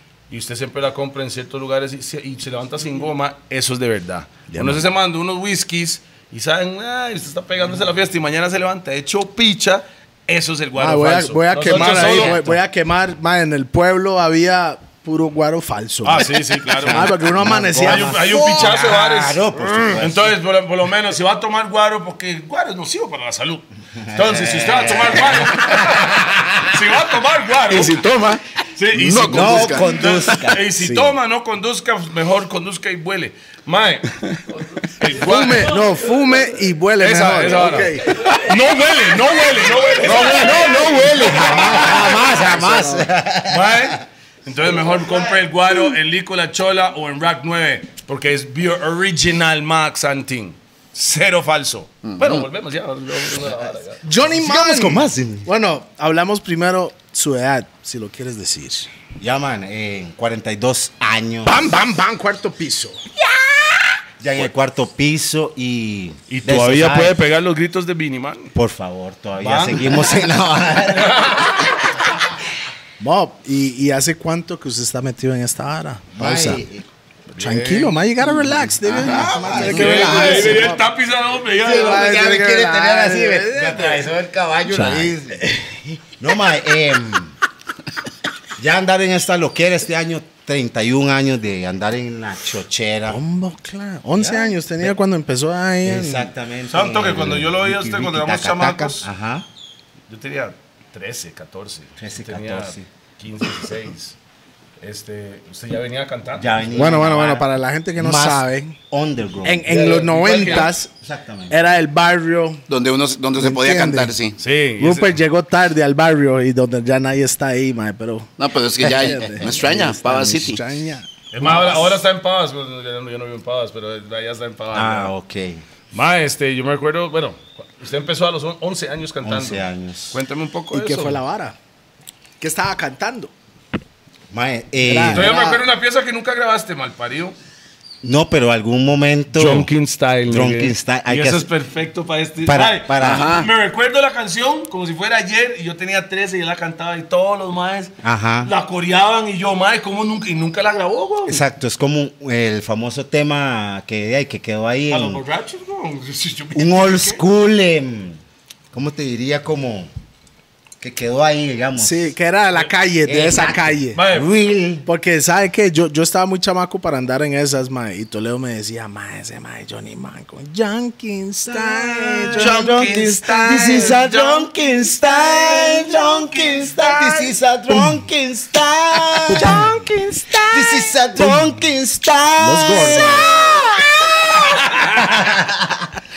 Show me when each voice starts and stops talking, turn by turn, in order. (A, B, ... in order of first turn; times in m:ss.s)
0:00.3-0:12.4 A
0:04.5-0:04.8 B
0:10.8-0:18.8 B
0:11.7-0:12.3 C
0:16.0-0:17.1 A
0:16.8-0:20.3 C
0:17.7-0:28.0 A
0:24.0-0:26.0 C
0:27.7-0:30.3 D
0:28.8-0:34.2 A
0:29.2-0:30.7 C
0:30.8-0:31.1 B
0:35.0-0:35.8 A
0:35.1-0:38.3 B
0:37.0-0:42.4 A
0:40.0-0:44.0 C
0:40.2-0:40.9 B
0:41.7-0:43.1 B
0:43.4-0:54.2 A
0:52.0-0:52.4 D
0:54.0-0:58.9 B
0:54.2-0:55.5 C
0:59.2-1:01.6 C
1:01.4-1:03.0 B
1:04.2-1:07.2 C
1:06.3-1:08.5 A
1:08.5-1:11.7 C
1:09.4-1:10.2 A
1:11.0-1:11.7 A
1:13.0-1:16.6 B
1:16.1-1:16.8 C
1:17.3-1:20.8 B
1:17.3-1:18.1 A
1:18.8-1:20.3 D
1:19.0-1:20.7 C
1:19.6-1:22.1 A
1:21.6-1:25.4 C
1:21.6-1:24.1 B
1:24.7-1:26.0 B
1:26.2-1:27.3 C
1:28.6-1:33.2 C
1:33.1-1:36.3 B
1:34.2-1:34.9 C
1:35.8-1:39.4 C
1:36.7-1:39.1 A
1:40.1-1:44.2 A
1:42.0-1:42.8 C
1:44.8-1:46.7 A
1:46.4-1:47.4 C
1:46.7-1:48.8 B
1:48.0-1:51.6 C
1:49.4-1:50.9 B
1:49.7-1:50.7 A
1:51.5-1:52.6 B
1:52.7-1:54.4 D
1:53.4-1:54.1 B
1:54.4-1:55.1 A
1:54.8-2:01.1 B
1:58.4-2:00.6 D
2:01.3-2:05.1 A
2:01.4-2:01.9 C
2:04.7-2:05.6 C
2:05.9-2:11.2 A
2:09.2-2:10.2 C
2:10.7-2:11.6 B
2:12.4-2:13.3 B
2:14.3-2:15.4 C
2:14.8-2:15.6 B
2:15.1-2:17.3 A
2:18.0-2:19.7 C
2:19.3-2:31.4 A
2:20.3-2:21.5 C
2:22.4-2:23.3 C
2:23.0-2:23.5 D
2:28.0-2:28.5 C
2:31.2-2:35.2 C
2:34.9-2:37.2 A
2:36.5-2:38.2 C
2:38.7-2:39.9 C
2:40.8-2:42.1 C
2:41.8-2:44.0 B
2:43.0-2:44.9 C
2:43.9-2:44.3 A
2:44.8-2:54.0 B
2:51.4-2:59.9 C
2:52.4-2:53.4 D
2:52.4-2:54.5 A
2:55.1-2:57.3 A
2:57.7-2:58.0 B
2:59.3-3:01.5 B
2:59.3-2:59.6 A
3:00.4-3:05.9 C
3:02.4-3:03.6 B